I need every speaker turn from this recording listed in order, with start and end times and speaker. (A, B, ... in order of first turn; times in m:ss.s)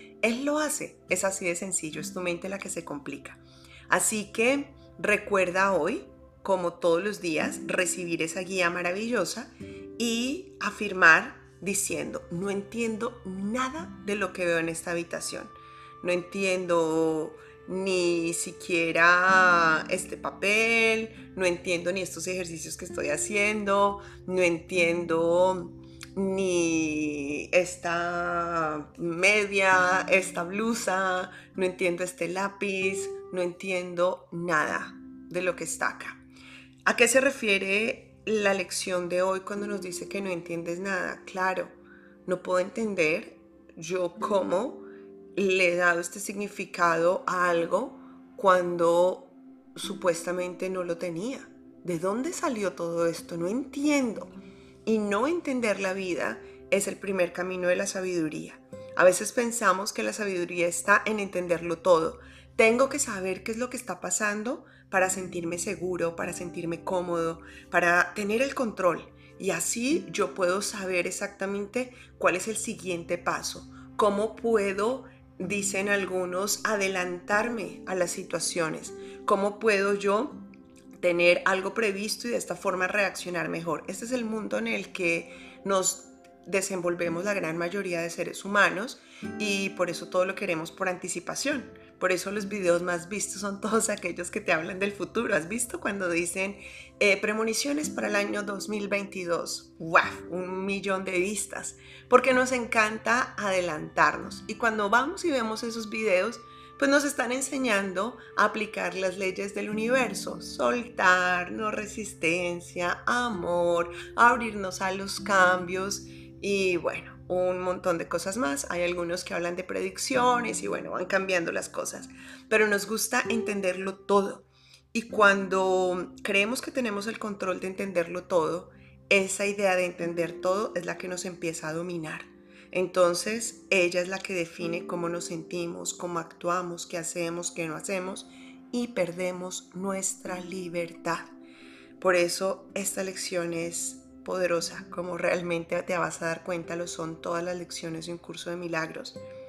0:00.2-0:36.2 A
0:36.8-0:54.3 A
0:54.8-1:20.4 A
1:21.0-2:21.3 A
2:22.0-2:29.2 A